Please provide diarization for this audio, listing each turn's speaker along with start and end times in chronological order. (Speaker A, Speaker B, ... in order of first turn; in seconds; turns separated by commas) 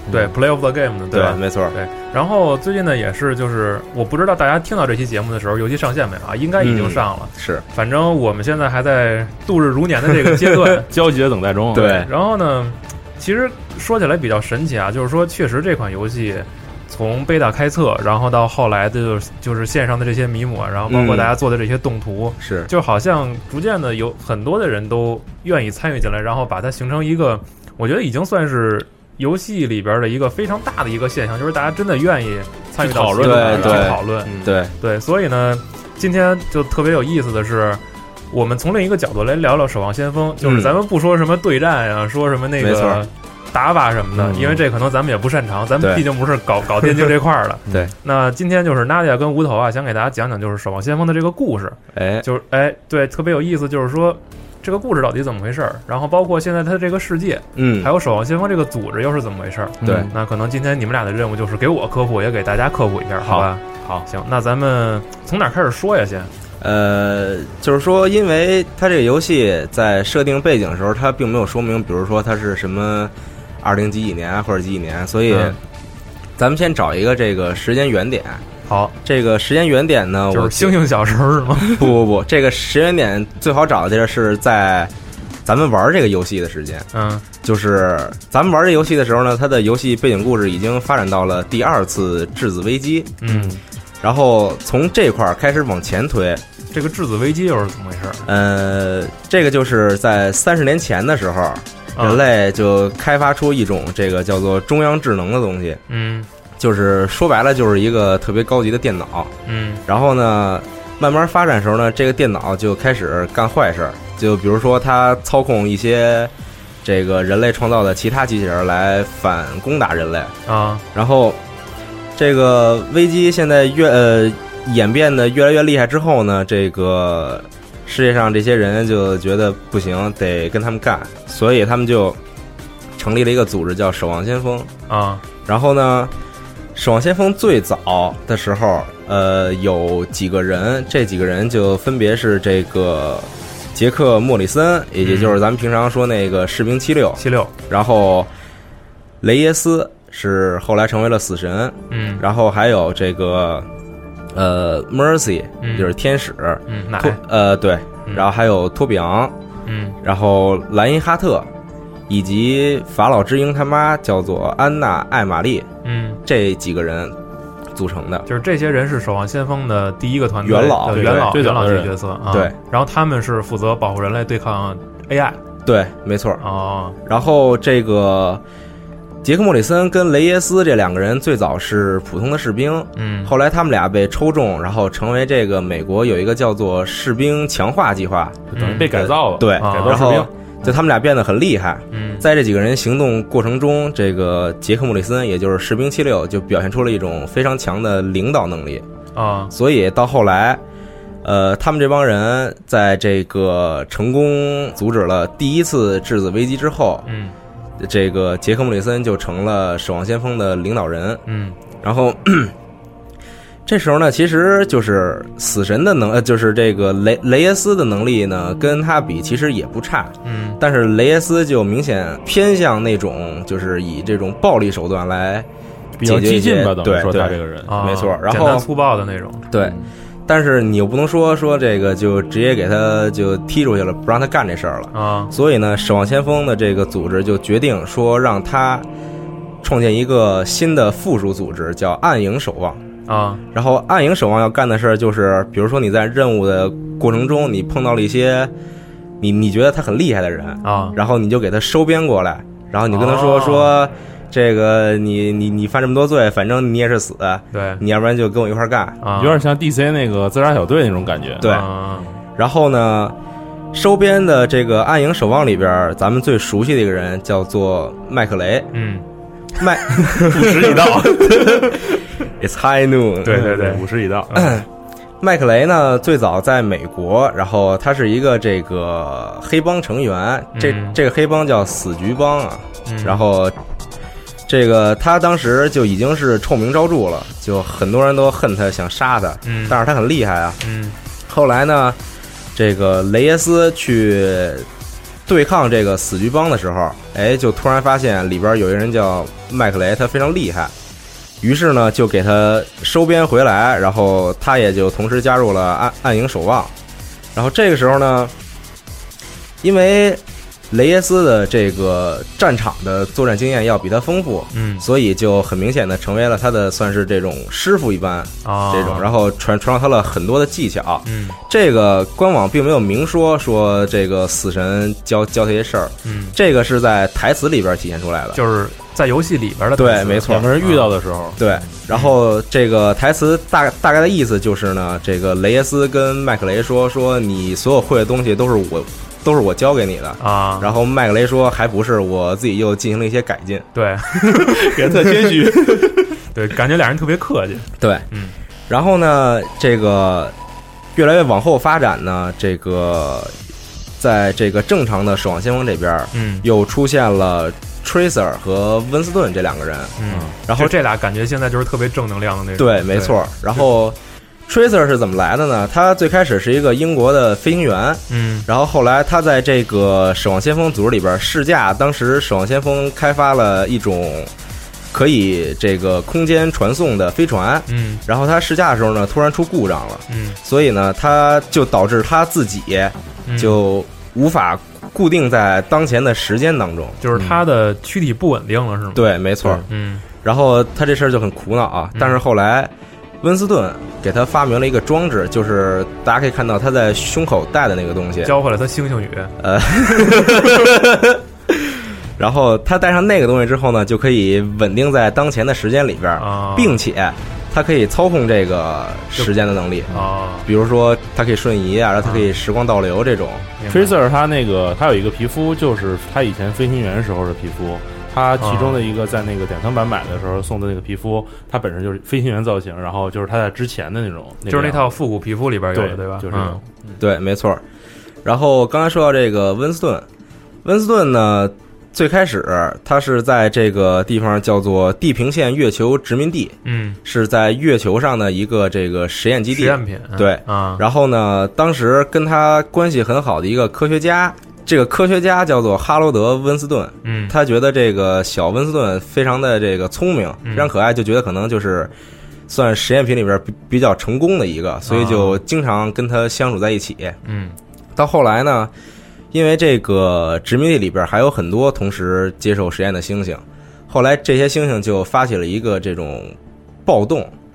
Speaker A: 0.1-10.9, Speaker B: 1.1-1.8, Speaker B: 6.6-7.7, Speaker B: 10.1-10.6, Speaker C: 10.9-12.1, Speaker B: 11.7-12.1, Speaker A: 11.8-66.3, Speaker B: 20.9-21.3, Speaker B: 22.4-22.7, Speaker C: 32.8-34.6, Speaker B: 33.2-34.7, Speaker B: 40.4-40.8, Speaker B: 42.6-43.0, Speaker C: 44.2-44.6, Speaker B: 51.9-52.3, Speaker B: 57.6-57.9, Speaker C: 59.8-60.1, Speaker B: 59.8-60.1, Speaker C: 63.2-64.1, Speaker B: 66.6-75.6, Speaker A: 75.3-75.6, Speaker B: 76.4-78.4, Speaker A: 78.7-79.0, Speaker B: 79.0-80.8, Speaker A: 80.3-81.9, Speaker B: 81.7-84.9, Speaker B: 85.5-86.9, Speaker A: 86.9-87.3, Speaker B: 87.4-93.2, Speaker A: 93.2-93.6, Speaker C: 93.3-93.6, Speaker B: 94.0-96.4, Speaker A: 96.7-98.2, Speaker B: 98.3-105.8, Speaker A: 102.0-102.2, Speaker A: 105.9-106.3, Speaker B: 106.6-109.3, Speaker A: 109.5-109.8, Speaker B: 109.9-116.3, Speaker B: 116.8-120.3, Speaker A: 120.5-120.8, Speaker B: 120.9-121.4, Speaker B: 122.2-132.2, Speaker B: 133.0-134.7, Speaker A: 134.9-135.2, Speaker B: 135.5-136.1, Speaker B: 136.8-148.3, Speaker A: 145.0-145.4, Speaker A: 147.2-147.5, Speaker B: 149.2-153.7, Speaker A: 151.9-152.2, Speaker B: 154.3-159.3, Speaker A: 155.6-155.9, Speaker A: 156.7-157.2, Speaker A: 159.7-160.0, Speaker B: 160.0-161.5, Speaker B: 162.1-165.7, Speaker A: 165.8-166.2, Speaker B: 166.3-167.2, Speaker B: 167.8-168.3, Speaker A: 168.3-175.4, Speaker B: 170.4-171.4, Speaker C: 170.8-171.9, Speaker B: 172.3-172.6, Speaker B: 175.7-176.4, Speaker A: 176.4-177.0, Speaker B: 177.1-178.4, Speaker B: 179.2-198.8, Speaker A: 183.0-183.3, Speaker A: 188.5-188.9, Speaker C: 188.6-190.3, Speaker A: 189.6-190.2, Speaker A: 191.9-192.3, Speaker A: 199.2-199.5, Speaker B: 199.5-200.6, Speaker B: 201.2-207.0, Speaker A: 207.1-207.3, Speaker B: 207.8-211.2, Speaker A: 211.3-211.6, Speaker B: 211.8-212.5, Speaker B: 213.7-225.5, Speaker A: 220.2-220.6, Speaker C: 226.0-227.9, Speaker B: 226.0-228.7, Speaker A: 227.7-229.5, Speaker B: 229.5-238.9, Speaker A: 234.9-235.3, Speaker B: 239.6-242.8, Speaker A: 243.1-243.4, Speaker B: 243.5-248.5, Speaker B: 249.2-259.0, Speaker A: 250.6-251.0, Speaker A: 252.9-253.7, Speaker A: 257.5-257.8, Speaker A: 259.0-259.4, Speaker C: 259.1-261.5, Speaker B: 261.4-261.7, Speaker A: 261.4-262.1, Speaker B: 262.4-263.2, Speaker B: 263.7-268.7, Speaker A: 268.7-269.0, Speaker B: 269.6-273.6, Speaker C: 270.1-272.0, Speaker A: 273.2-274.6, Speaker C: 273.3-274.4, Speaker B: 274.3-274.7, Speaker B: 275.2-283.6, Speaker A: 280.5-281.0, Speaker A: 282.9-283.2, Speaker B: 284.5-290.6, Speaker A: 289.4-289.8, Speaker A: 290.6-291.0, Speaker B: 291.3-292.0, Speaker B: 292.6-294.7, Speaker B: 295.3-300.7, Speaker B: 301.4-306.7, Speaker B: 307.3-308.3, Speaker B: 309.6-328.4, Speaker A: 314.5-314.9, Speaker A: 318.4-319.1, Speaker A: 321.1-321.4, Speaker A: 326.0-326.4, Speaker A: 328.3-330.9, Speaker B: 329.8-330.5, Speaker C: 330.2-331.6, Speaker B: 331.4-343.7, Speaker A: 340.2-340.8, Speaker A: 343.7-344.7, Speaker C: 344.2-346.2, Speaker B: 344.9-345.8, Speaker A: 346.3-348.4, Speaker B: 347.8-348.1, Speaker B: 348.7-350.4, Speaker B: 350.9-353.3, Speaker B: 354.0-360.7, Speaker A: 356.1-356.5, Speaker A: 360.0-363.6, Speaker B: 362.6-374.3, Speaker A: 368.1-368.5, Speaker B: 374.9-387.0, Speaker A: 377.7-378.0, Speaker A: 380.1-380.4, Speaker A: 383.3-383.6, Speaker A: 387.0-390.0, Speaker C: 387.1-387.4, Speaker B: 388.9-389.6, Speaker B: 390.2-398.3, Speaker A: 391.9-392.2, Speaker A: 398.2-399.3, Speaker B: 399.4-409.9, Speaker A: 406.2-406.8, Speaker A: 409.9-410.5, Speaker B: 410.5-413.5, Speaker A: 412.0-412.3, Speaker A: 413.6-414.0, Speaker C: 413.7-424.9, Speaker A: 418.4-418.8, Speaker A: 424.5-426.6, Speaker C: 425.7-427.0, Speaker B: 427.0-427.6, Speaker B: 428.2-430.1, Speaker B: 430.6-451.9, Speaker A: 436.6-437.0, Speaker A: 439.5-440.8, Speaker A: 447.0-447.4, Speaker A: 450.4-450.7, Speaker B: 452.5-457.2, Speaker A: 454.9-455.4, Speaker A: 457.2-457.6, Speaker B: 458.0-458.7, Speaker B: 459.3-467.3